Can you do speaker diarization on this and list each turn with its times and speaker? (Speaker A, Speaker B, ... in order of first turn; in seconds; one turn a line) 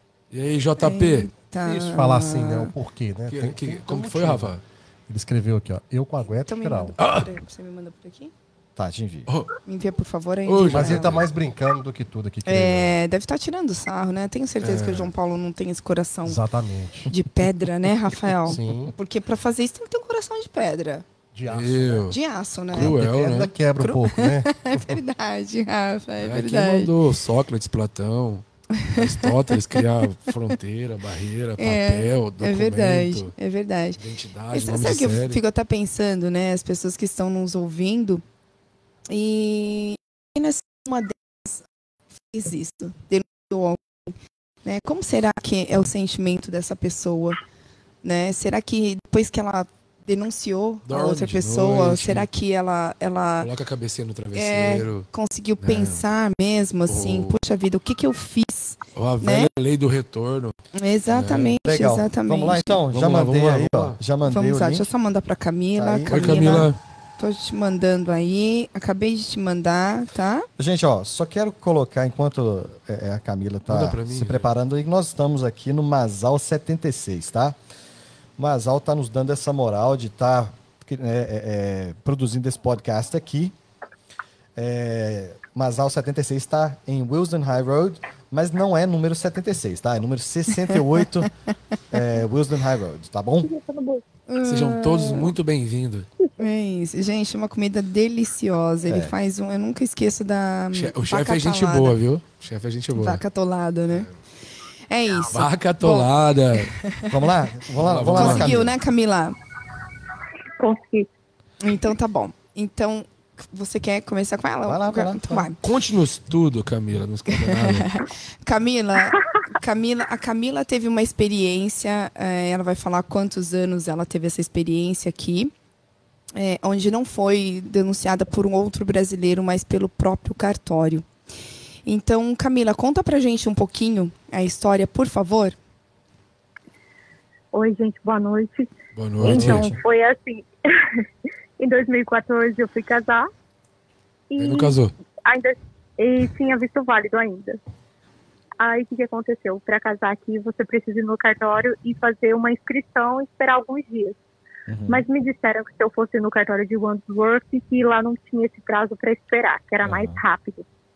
Speaker A: 0.3-1.3
Speaker B: 0.8-2.7
Speaker C: 1.6-6.9
Speaker A: 3.3-4.6
Speaker B: 6.2-8.3
Speaker A: 7.0-7.3
Speaker D: 8.8-9.3
Speaker A: 9.3-9.6
Speaker B: 9.7-11.3
Speaker A: 10.4-11.2
Speaker C: 10.7-13.0
Speaker B: 12.4-16.4
Speaker A: 14.6-15.1
Speaker C: 16.2-17.1
Speaker B: 17.1-21.0
Speaker C: 18.4-18.9
Speaker C: 21.3-22.1
Speaker A: 21.5-22.2
Speaker B: 22.1-23.0
Speaker A: 22.7-23.5
Speaker C: 22.7-25.0
Speaker B: 23.8-26.9
Speaker A: 26.2-33.3
Speaker B: 28.8-29.7
Speaker B: 31.6-38.2
Speaker A: 34.0-35.4
Speaker B: 39.1-41.6
Speaker B: 42.2-43.9
Speaker B: 44.6-47.4
Speaker B: 48.0-53.5
Speaker A: 50.9-52.3
Speaker A: 53.4-55.1
Speaker B: 54.3-59.5
Speaker A: 55.6-56.0
Speaker A: 56.9-57.4
Speaker A: 58.9-60.5
Speaker B: 60.7-62.8
Speaker A: 61.1-61.6
Speaker D: 61.6-64.9
Speaker A: 62.9-64.0
Speaker B: 64.2-70.5
Speaker D: 65.8-66.7
Speaker A: 66.1-66.8
Speaker D: 70.6-77.5
Speaker A: 73.7-74.5
Speaker D: 78.4-83.5
Speaker D: 84.5-91.3
Speaker D: 91.9-93.5
Speaker E: 93.4-94.0
Speaker B: 94.3-95.3
Speaker A: 94.4-96.1
Speaker B: 96.4-102.0
Speaker D: 98.8-99.1
Speaker A: 100.7-103.2
Speaker B: 102.9-104.1
Speaker B: 104.9-107.2
Speaker A: 105.2-106.7
Speaker D: 107.1-108.7
Speaker A: 107.8-108.6
Speaker B: 108.1-109.4
Speaker E: 110.6-111.1
Speaker B: 111.6-115.6
Speaker D: 114.7-115.5
Speaker A: 115.6-118.0
Speaker B: 117.3-125.5
Speaker B: 126.3-131.1
Speaker B: 131.8-135.5
Speaker E: 137.5-138.7
Speaker A: 138.9-139.8
Speaker D: 139.2-139.8
Speaker E: 139.2-141.0
Speaker E: 141.6-143.3
Speaker E: 144.3-147.6
Speaker A: 144.4-144.9
Speaker E: 148.6-154.2
Speaker D: 154.7-155.1
Speaker E: 154.9-160.6
Speaker D: 159.8-160.2